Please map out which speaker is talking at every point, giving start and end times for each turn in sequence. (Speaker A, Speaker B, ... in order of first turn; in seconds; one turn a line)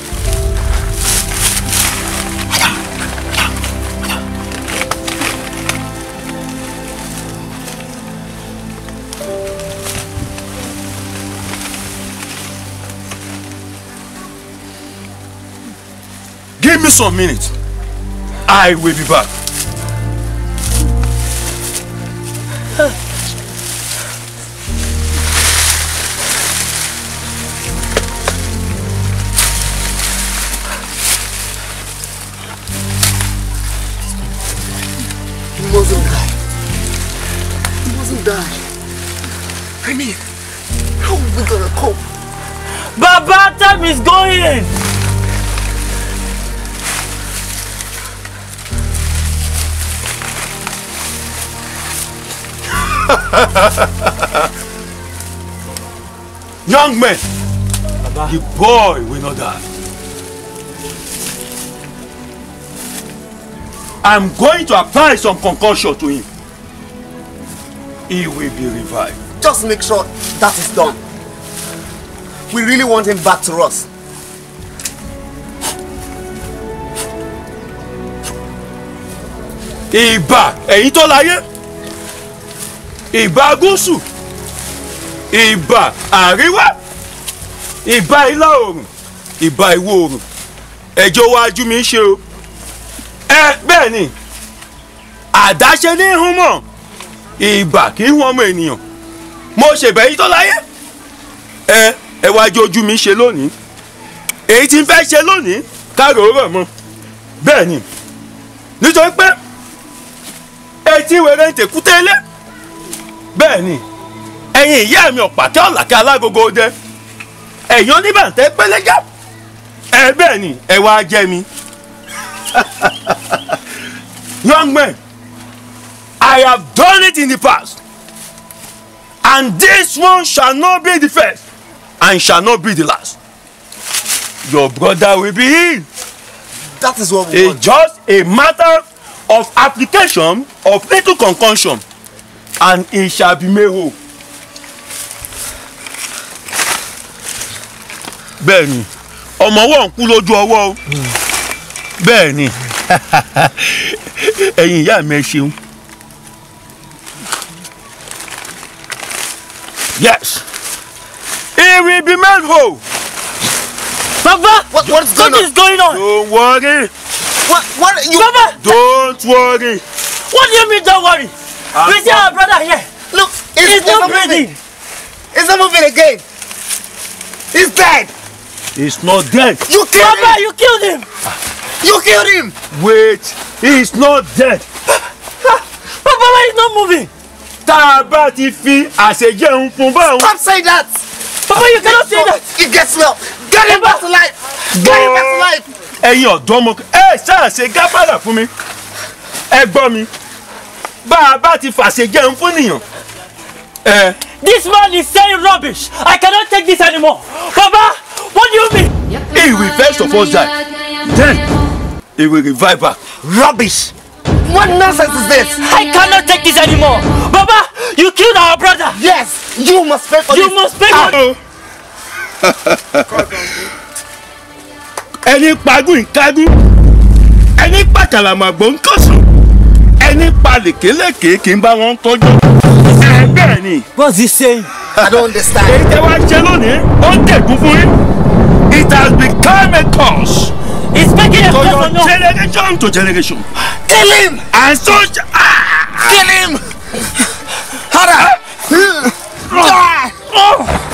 Speaker A: 16.6-17.5
Speaker A: 18.4-19.3
Speaker B: 35.6-36.3
Speaker B: 37.8-38.6
Speaker B: 39.8-40.2
Speaker B: 41.0-42.0
Speaker C: 42.9-44.7
Speaker A: 56.6-57.2
Speaker A: 58.2-59.6
Speaker A: 64.0-66.3
Speaker A: 68.1-69.2
Speaker B: 69.4-71.0
Speaker B: 72.5-73.9
Speaker A: 79.9-81.4
Speaker A: 83.1-84.0
Speaker A: 85.3-86.8
Speaker A: 87.8-88.9
Speaker A: 89.4-90.2
Speaker A: 91.0-92.2
Speaker A: 93.3-94.1
Speaker A: 95.3-96.6
Speaker A: 97.4-98.8
Speaker A: 99.5-100.6
Speaker A: 101.7-103.5
Speaker A: 104.5-106.7
Speaker A: 107.4-107.8
Speaker A: 108.8-109.4
Speaker A: 110.8-112.2
Speaker A: 113.3-113.8
Speaker A: 114.5-116.7
Speaker A: 117.7-119.0
Speaker A: 119.9-121.5
Speaker A: 122.5-123.4
Speaker A: 124.4-125.0
Speaker A: 126.2-127.8
Speaker A: 129.2-131.4
Speaker A: 132.0-133.2
Speaker A: 134.4-135.9
Speaker B: 136.8-137.6
Speaker A: 137.3-141.8
Speaker A: 142.6-143.9
Speaker A: 148.4-150.8
Speaker A: 152.0-155.5
Speaker A: 159.9-160.4
Speaker A: 161.6-162.8
Speaker C: 164.2-166.0
Speaker B: 164.7-165.5
Speaker A: 165.9-166.9
Speaker B: 167.4-168.3
Speaker C: 168.1-168.6
Speaker A: 168.6-169.8
Speaker C: 170.3-172.9
Speaker A: 171.7-172.3
Speaker B: 173.1-174.5
Speaker C: 173.6-174.6
Speaker B: 175.3-176.2
Speaker B: 177.5-178.1
Speaker A: 178.8-179.6
Speaker B: 179.7-180.4
Speaker C: 179.9-181.1
Speaker B: 181.8-182.5
Speaker A: 182.7-184.7
Speaker C: 185.4-187.1
Speaker A: 187.6-190.3
Speaker B: 190.0-191.0
Speaker C: 191.5-192.4
Speaker B: 191.6-195.7
Speaker C: 193.6-194.0
Speaker A: 194.7-195.5
Speaker A: 196.0-198.5
Speaker A: 199.5-200.1
Speaker A: 201.0-202.8
Speaker A: 203.8-204.2
Speaker C: 204.4-208.9
Speaker A: 209.3-211.4
Speaker A: 212.2-213.0
Speaker B: 213.2-213.9
Speaker B: 214.4-215.6
Speaker C: 215.6-219.0
Speaker B: 218.9-220.6
Speaker C: 220.3-221.2
Speaker A: 220.9-221.4
Speaker A: 222.4-223.0
Speaker B: 223.1-223.7
Speaker A: 225.2-226.5
Speaker A: 227.6-229.2
Speaker A: 230.0-232.4
Speaker A: 232.9-233.9
Speaker C: 233.9-234.7
Speaker A: 234.9-238.0
Speaker B: 235.0-235.8
Speaker A: 238.7-240.5
Speaker C: 240.9-242.1
Speaker A: 241.4-243.4
Speaker B: 243.8-244.4
Speaker A: 244.5-246.3
Speaker B: 246.0-246.6
Speaker B: 247.9-250.2
Speaker A: 250.3-250.6